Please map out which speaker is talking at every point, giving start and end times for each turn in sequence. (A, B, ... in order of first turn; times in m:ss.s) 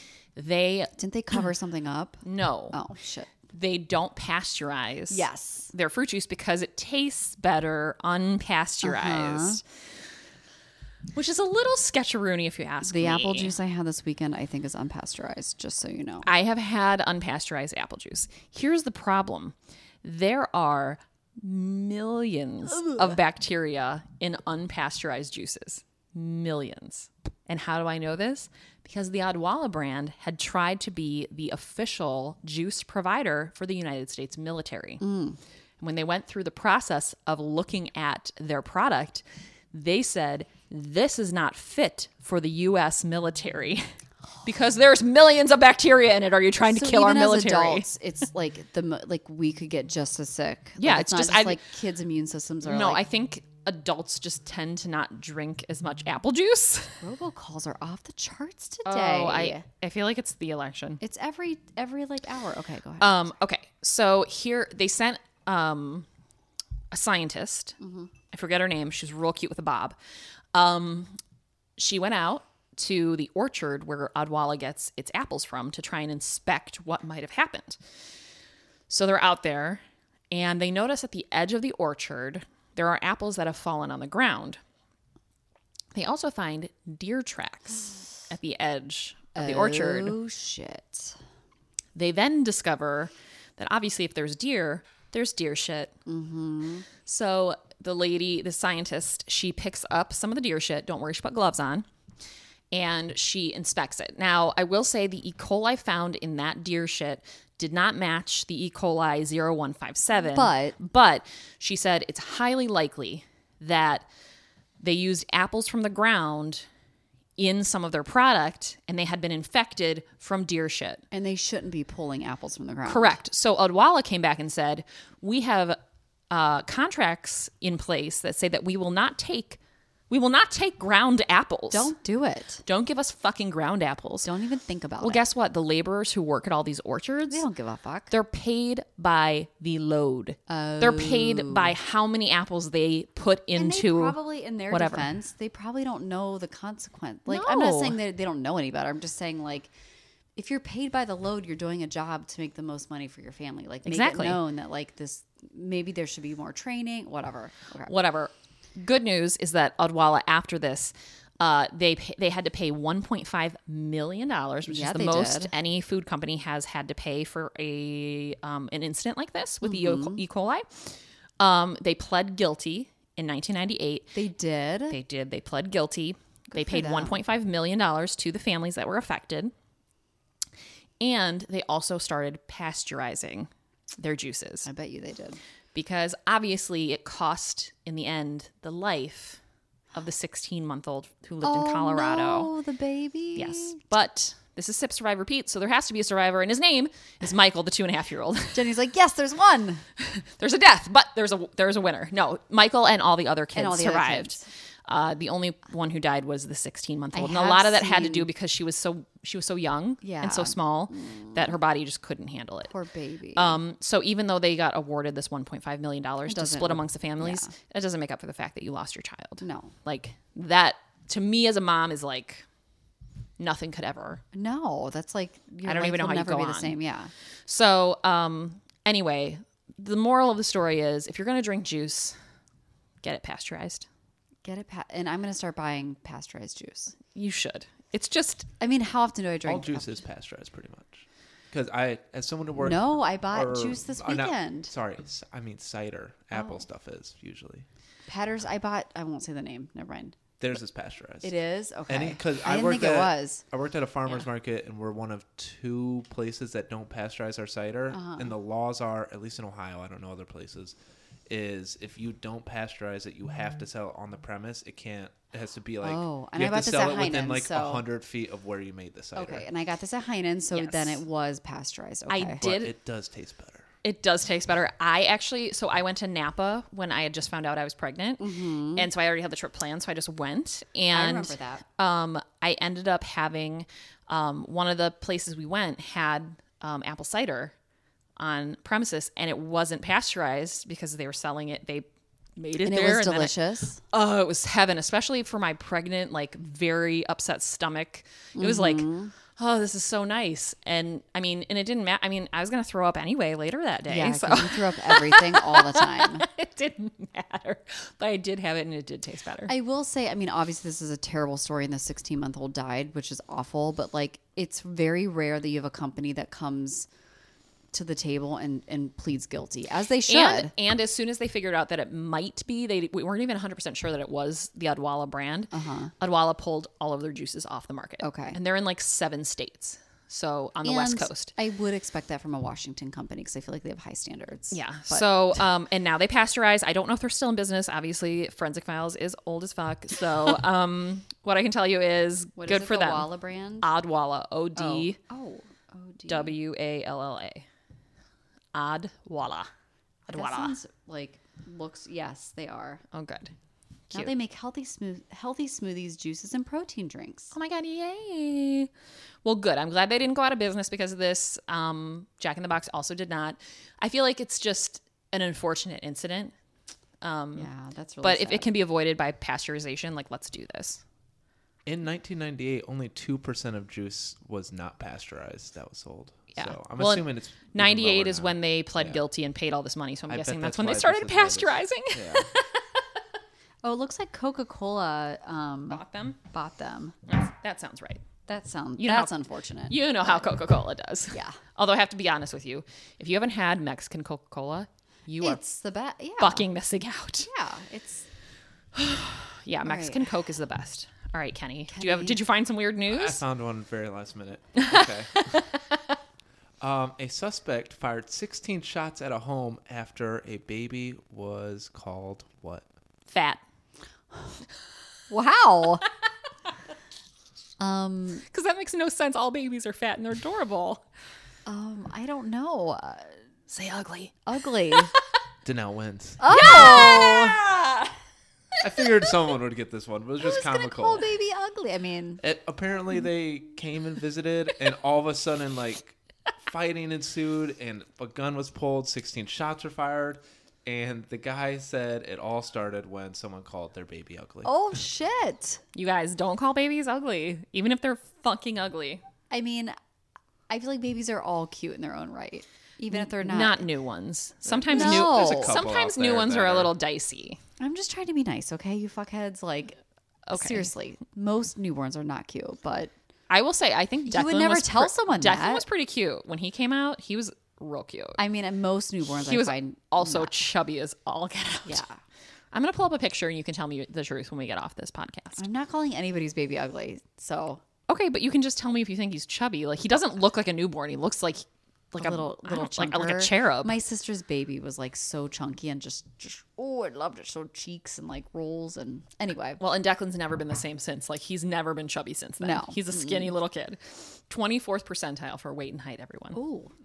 0:00.4-0:01.0 A
0:01.0-0:03.3 B
0:02.2-0:02.8 A
0:03.5-0:09.6 A
0:05.1-0:05.7 B
0:08.8-0:09.6 B
0:11.1-0:13.5 A
0:12.8-0:16.3 B
0:16.2-0:35.0 A
0:35.0-0:35.4 B
0:35.8-0:43.9 A
0:44.4-0:47.9 A
0:46.7-0:53.0 B
0:50.8-0:51.6 A
0:52.6-0:57.0 A
0:57.0-0:59.6 B
0:58.8-1:01.0 A
1:01.0-1:03.3 B
1:03.0-1:06.1 A
1:06.9-1:07.8 A
1:07.8-1:08.1 B
1:08.3-1:10.0 A
1:10.5-1:11.2 A
1:11.8-1:17.8 A
1:18.9-1:24.6 A
1:25.9-1:30.2 A
1:29.4-1:31.2 B
1:32.0-1:35.9 A
1:36.1-1:36.9 B
1:37.0-1:41.8 A
1:42.7-1:54.1 A
1:50.3-1:50.8 B
1:54.8-1:56.7 A
1:57.4-2:01.0 A
2:01.1-2:03.2 B
2:02.9-2:05.8 A
2:06.3-2:11.9 A
2:11.7-2:12.6 B
2:12.6-2:14.3 A
2:14.2-2:15.2 B
2:15.0-2:17.4 A
2:17.3-2:18.1 B
2:18.1-2:24.2 A
2:20.5-2:21.7 B
2:23.6-2:29.7 B
2:24.7-2:25.1 A
2:27.3-2:28.0 A
2:30.4-2:37.9 B
2:33.8-2:34.4 A
2:37.9-2:54.2 A
2:44.7-2:45.5 B
2:49.6-2:50.2 B
2:54.1-2:55.0 B
2:54.9-2:59.5 A
2:56.5-2:57.2 B
3:01.0-3:04.7 A
3:04.6-3:05.4 B
3:05.8-3:09.4 A
3:09.9-3:12.5 A
3:11.4-3:13.8 B
3:13.4-3:18.7 A
3:18.5-3:19.8 B
3:20.0-3:32.7 A
3:23.6-3:24.4 B
3:27.1-3:28.3 B
3:30.0-3:31.4 B
3:32.7-3:33.6 B
3:33.4-3:42.4 A
3:36.3-3:37.5 B
3:39.4-3:39.7 B
3:43.4-3:44.2 A
3:44.3-3:47.1 B
3:45.6-3:46.8 A
3:47.5-3:52.2 A
3:53.0-3:53.9 A
3:54.4-3:57.0 B
3:57.1-3:58.5 A
3:58.6-4:00.0 B
3:59.5-4:07.7 C
4:02.6-4:04.7 B
4:06.3-4:06.6 B
4:08.1-4:10.2 B
4:10.4-4:11.3 C
4:11.2-4:13.4 B
4:11.9-4:20.8 C
4:17.9-4:18.3 B
4:21.3-4:29.5 C
4:25.8-4:27.8 B
4:29.2-4:32.4 B
4:30.5-4:31.0 A
4:32.1-4:32.7 A
4:32.4-4:33.6 C
4:33.8-4:47.5 A
4:38.2-4:38.9 B
4:40.9-4:41.6 B
4:48.2-4:51.9 A
4:52.4-4:53.4 A
4:52.6-4:53.8 B
4:53.9-5:09.5 A
4:58.4-4:59.1 B
5:03.9-5:06.2 B
5:09.5-5:16.9 B
5:17.7-5:20.5 B
5:20.1-5:31.3 A
5:25.5-5:25.9 B
5:28.0-5:28.4 B
5:30.6-5:35.0 B
5:34.5-5:43.1 A
5:42.4-5:43.7 B
5:43.6-5:45.0 A
5:44.6-5:46.4 B
5:46.1-5:47.4 A
5:48.5-5:49.5 A
5:50.1-5:50.6 A
5:50.1-5:52.8 B
5:52.9-5:53.3 A
5:53.9-5:57.4 B
5:57.3-5:58.7 A
5:59.2-6:06.3 A
6:07.0-6:07.5 A
6:07.4-6:08.5 B
6:08.0-6:10.8 A
6:11.7-6:19.0 C
6:16.4-6:22.8 A
6:20.1-6:22.3 C
6:23.6-6:27.0 B
6:25.7-6:26.2 A
6:27.1-6:28.0 A
6:28.3-6:30.3 B
6:28.8-6:35.4 A
6:31.1-6:31.4 B
6:35.2-6:36.4 B
6:36.2-6:37.3 A
6:37.2-6:38.1 B
6:38.8-6:43.2 A
6:39.6-6:40.1 B
6:41.7-6:42.2 B
6:42.9-6:45.4 C
6:44.6-6:45.9 A
6:46.6-6:52.7 C
6:53.1-6:53.4 A
6:55.1-6:55.8 B
6:57.6-6:58.2 B
6:58.3-7:00.8 A
7:01.5-7:03.2 B
7:03.5-7:04.2 A
7:04.3-7:04.9 B
7:05.4-7:06.9 C
7:06.2-7:07.4 B
7:06.3-7:08.0 A
7:08.6-7:11.1 C
7:10.2-7:12.2 B
7:12.2-7:24.5 C
7:24.4-7:25.6 B
7:25.8-7:29.0 A
7:29.3-7:29.7 B
7:30.5-7:33.7 B
7:32.9-7:37.4 A
7:34.5-7:36.8 C
7:34.7-7:35.6 B
7:37.6-7:39.8 B
7:40.3-7:40.7 A
7:40.3-7:42.9 B
7:43.3-7:48.2 A
7:44.1-7:45.6 B
7:48.2-7:50.3 B
7:49.2-7:51.8 A
7:51.7-7:52.0 B
7:52.5-7:55.4 A
7:55.4-7:57.6 B
7:57.9-8:03.7 A
8:02.0-8:09.6 B
8:09.6-8:16.4 A
8:12.4-8:13.3 B
8:16.4-8:16.7 B